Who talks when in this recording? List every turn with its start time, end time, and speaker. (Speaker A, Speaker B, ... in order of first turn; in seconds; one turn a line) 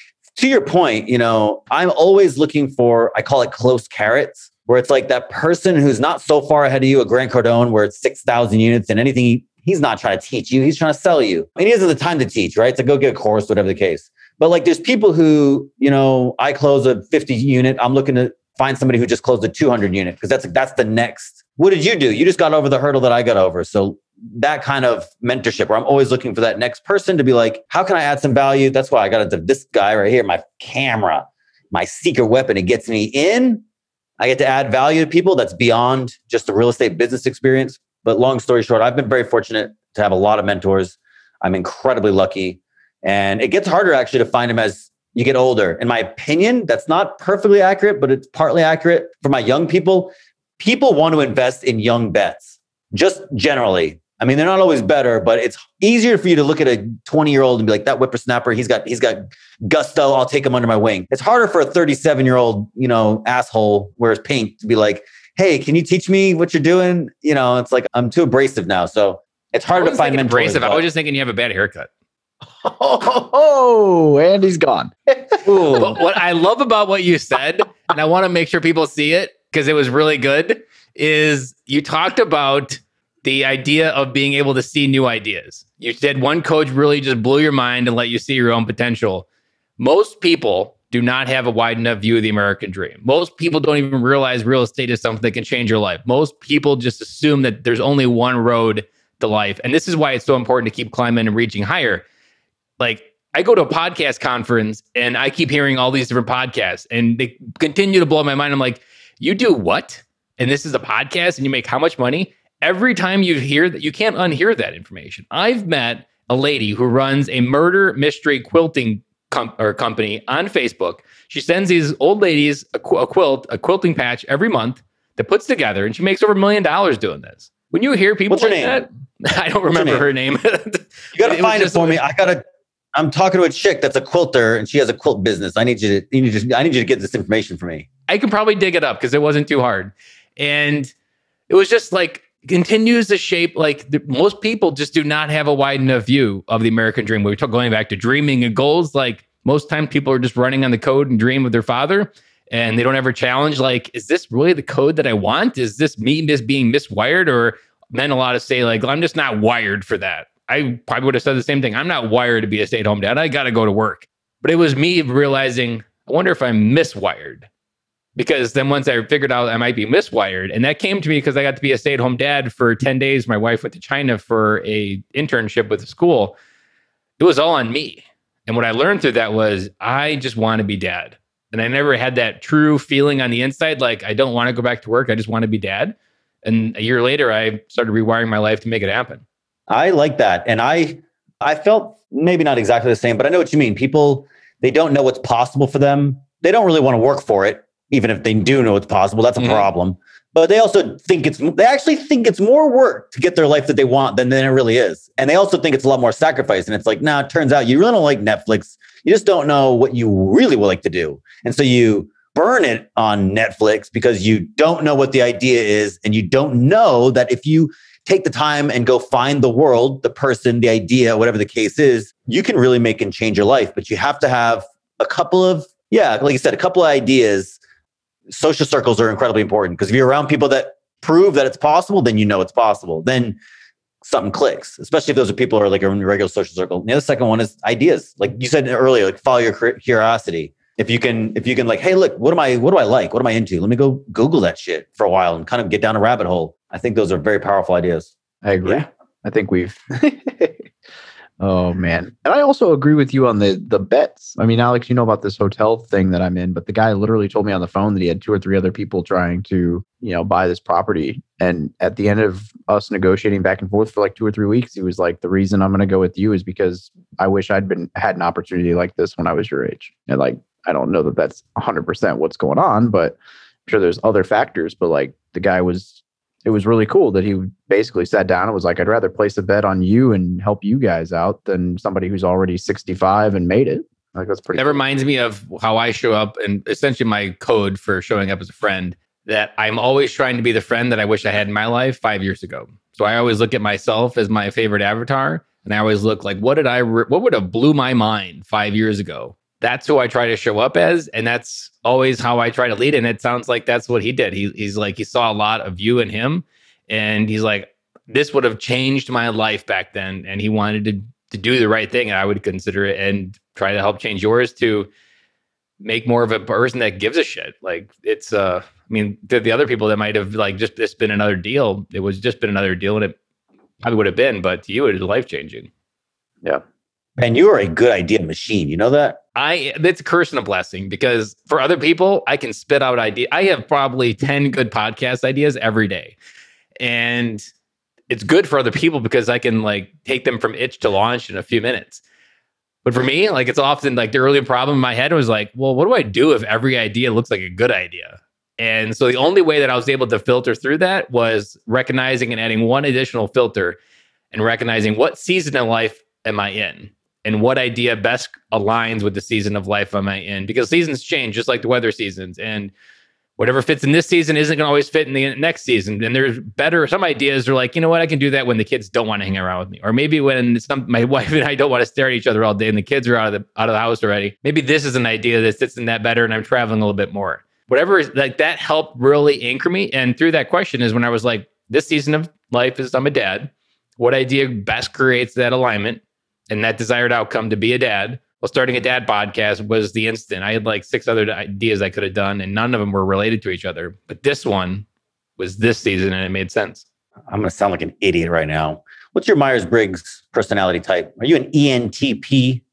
Speaker A: 0.4-33.6
Speaker A: 34.2-70.8
Speaker B: 69.7-71.9
Speaker C: 72.6-75.8
Speaker A: 75.5-76.0
Speaker B: 75.8-89.3
Speaker B: 89.8-102.0
Speaker B: 102.8-132.1
Speaker A: 128.3-128.8
Speaker A: 129.7-130.1
Speaker A: 131.1-132.4
Speaker A: 132.9-137.9
Speaker B: 138.1-140.9
Speaker B: 141.5-167.5
Speaker B: 168.2-176.3
Speaker B: 177.2-189.2
Speaker A: 189.7-227.6
Speaker B: 199.4-199.7
Speaker A: 228.3-233.4
Speaker A: 234.0-248.1
Speaker C: 248.4-250.7
Speaker C: 251.4-284.8
Speaker B: 284.6-314.9
Speaker B: 315.8-323.1
Speaker B: 323.8-325.7
Speaker A: 327.2-329.2
Speaker B: 329.4-336.2
Speaker B: 336.8-337.5
Speaker B: 338.1-342.0
Speaker B: 342.9-353.8
Speaker B: 354.3-362.7
Speaker B: 363.4-394.9
Speaker B: 395.4-396.9
Speaker A: 397.3-402.6